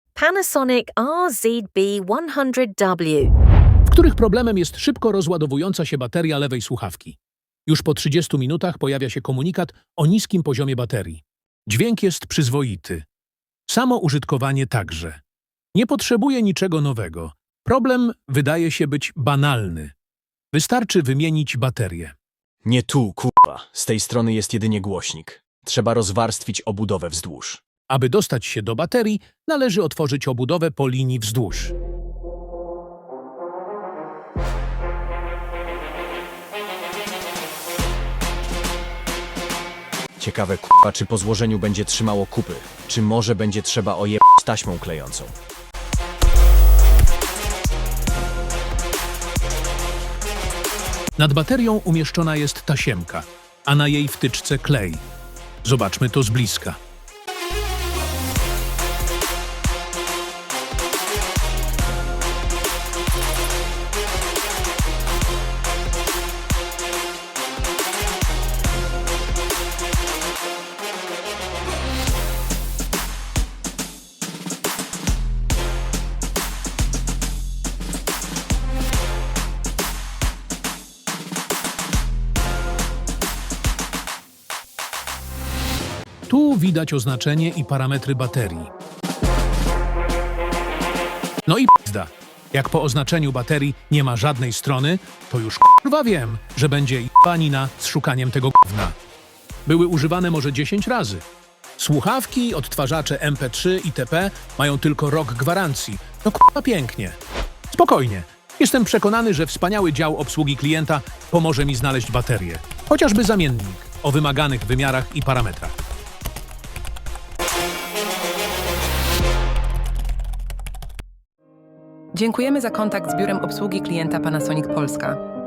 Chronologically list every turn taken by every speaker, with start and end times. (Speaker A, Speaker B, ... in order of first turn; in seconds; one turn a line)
Speaker A: 0.1-3.3
Speaker B: 3.8-13.0
Speaker B: 13.7-15.2
Speaker B: 15.7-19.9
Speaker B: 20.5-22.1
Speaker C: 22.6-27.6
Speaker B: 27.9-31.7
Speaker C: 40.2-45.3
Speaker B: 51.1-55.0
Speaker B: 55.6-56.8
Speaker B: 86.3-88.7
Speaker B: 91.4-98.9
Speaker B: 99.7-101.2
Speaker B: 101.8-107.2
Speaker B: 107.7-115.7
Speaker D: 122.1-125.2